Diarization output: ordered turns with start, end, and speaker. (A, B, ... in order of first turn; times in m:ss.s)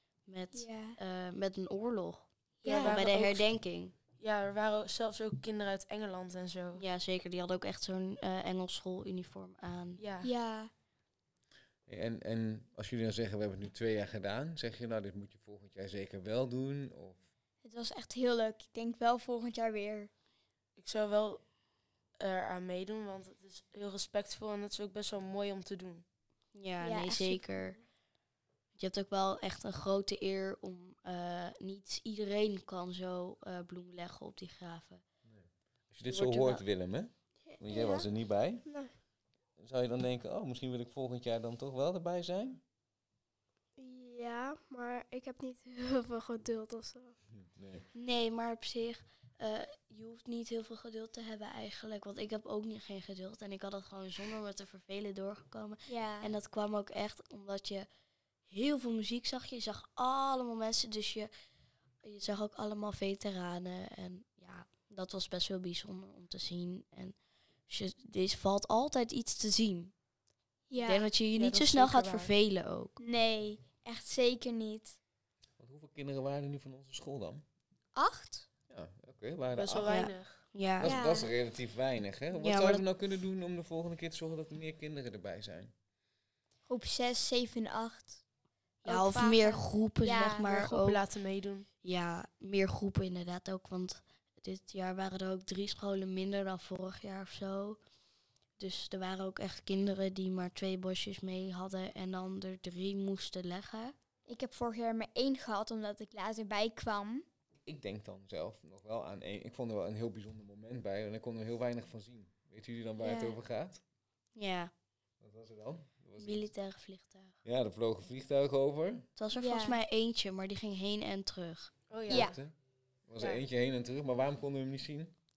0:00.3-0:03.9 A
0:00.6-0:01.0 B
0:02.6-0:03.5 C
0:04.2-0:06.8 C
0:06.8-0:10.0 A
0:10.0-0:10.3 C
0:10.2-0:10.7 B
0:11.9-0:17.2 D
0:17.6-0:20.1 B
0:20.8-0:21.4 C
0:22.2-0:26.0 C
0:26.5-0:27.8 A
0:26.8-0:27.5 B
0:28.8-0:35.0 A
0:35.2-0:38.6 D
0:36.1-0:36.6 A
0:37.5-0:38.1 E
0:38.7-0:38.9 E
0:39.6-0:42.6 D
0:43.8-0:47.2 E
0:47.4-0:47.9 D
0:47.9-0:57.9 A
0:55.9-0:56.3 B
0:58.5-1:01.3 A
1:02.0-1:07.2 A
1:07.7-1:09.9 A
1:10.7-1:11.1 B
1:10.8-1:13.0 A
1:11.3-1:12.3 C
1:13.0-1:15.0 B
1:15.6-1:17.4 D
1:18.0-1:18.5 B
1:18.7-1:19.9 D
1:19.5-1:20.4 C
1:19.8-1:21.0 A
1:20.8-1:25.7 D
1:20.8-1:21.3 B
1:22.3-1:22.8 A
1:26.7-1:28.2 B
1:28.8-1:31.0 A
1:28.9-1:29.4 E
1:29.4-1:30.4 B
1:30.2-1:31.7 C
1:31.8-1:37.8 A
1:38.6-1:44.0 A
1:44.3-1:47.3 B
1:47.7-1:53.8 D
1:53.0-1:53.4 B
1:54.4-1:54.7 A
1:55.2-1:56.5 D
1:56.2-1:57.4 A
1:57.4-1:59.1 D
1:59.2-2:01.7 A
1:59.4-1:59.8 B
2:01.9-2:02.4 C
2:02.1-2:02.5 D
2:03.1-2:05.1 D
2:03.2-2:03.4 C